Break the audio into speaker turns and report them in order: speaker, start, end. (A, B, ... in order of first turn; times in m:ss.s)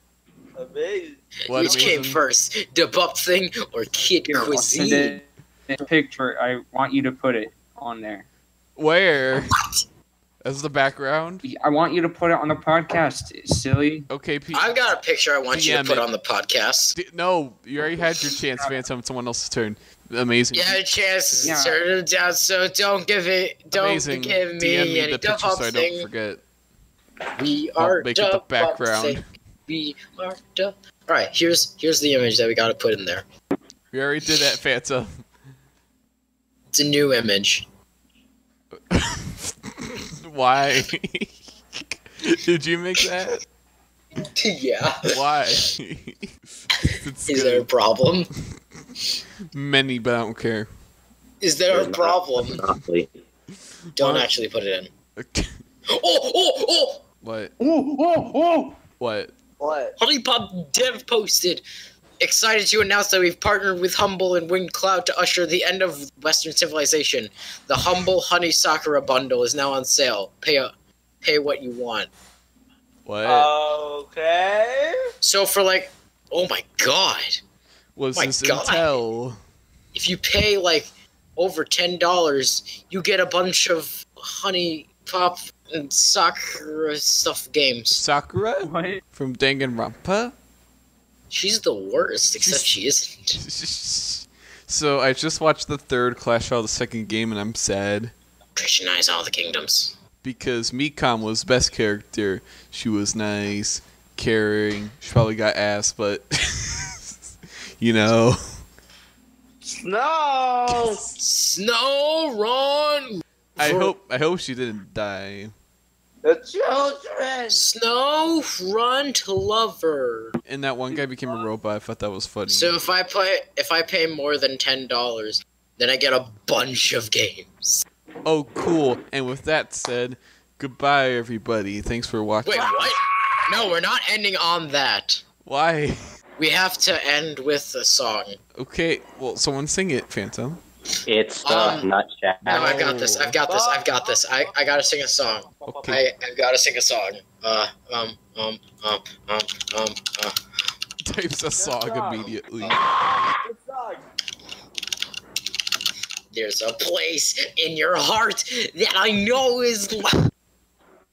0:00.5-0:02.0 A
0:01.5-0:02.2 B
0:01.5-0:05.2 C
0:04.3-0:08.2 D
0:08.8-0:09.6 B
0:10.4-0:11.4 B
0:11.4-0:14.0 D
0:14.1-0:14.8 B
0:14.5-0:17.0 C
0:15.5-0:16.1 B
0:16.9-0:20.8 B
0:18.5-0:18.8 D
0:20.5-0:26.1 C
0:21.4-0:21.8 D
0:23.7-0:26.4 B
0:27.3-0:33.2 C
0:27.8-0:29.2 B
0:33.9-0:35.2 B
0:36.7-0:37.6 C
0:38.9-0:43.4 B
0:44.4-0:45.2 C
0:45.1-0:46.3 B
0:46.8-0:47.7 B
0:47.3-0:48.3 C
0:49.5-0:50.7 B
0:51.4-0:52.6 C
0:51.7-0:53.2 E
0:54.0-0:54.3 B
0:54.0-0:54.9 C
0:55.2-0:55.5 B
0:55.9-0:57.0 C
0:57.2-0:57.6 B
0:59.0-0:59.3 B
0:59.6-0:59.9 A
1:00.0-1:01.6 C
1:02.2-1:10.7 C
1:11.2-1:12.1 C
1:13.0-1:13.5 B
1:13.2-1:15.1 A
1:15.2-1:17.4 C
1:18.0-1:19.4 B
1:18.1-1:18.9 C
1:19.9-1:28.0 C
1:27.9-1:30.3 B
1:28.6-1:29.0 D
1:31.3-1:33.4 C
1:32.4-1:32.8 B
1:33.3-1:38.1 B
1:38.6-1:40.0 C
1:40.2-1:47.2 B
1:47.8-1:48.6 B
1:49.6-1:51.0 A
1:50.7-1:51.1 B
1:51.2-1:53.9 C
1:53.6-1:55.5 B
1:56.2-1:57.7 A
1:57.5-2:00.4 C
2:00.4-2:02.8 B
2:02.5-2:07.8 C
2:08.2-2:12.9 B
2:12.4-2:15.2 C
2:15.4-2:16.0 B
2:16.4-2:18.4 C
2:18.6-2:20.6 B
2:21.1-2:23.0 E
2:21.4-2:21.9 C
2:22.4-2:23.4 B
2:22.5-2:30.4 C
2:23.4-2:26.0 A
2:25.6-2:26.0 B
2:31.0-2:32.8 B
2:31.6-2:34.0 A
2:36.3-2:40.2 C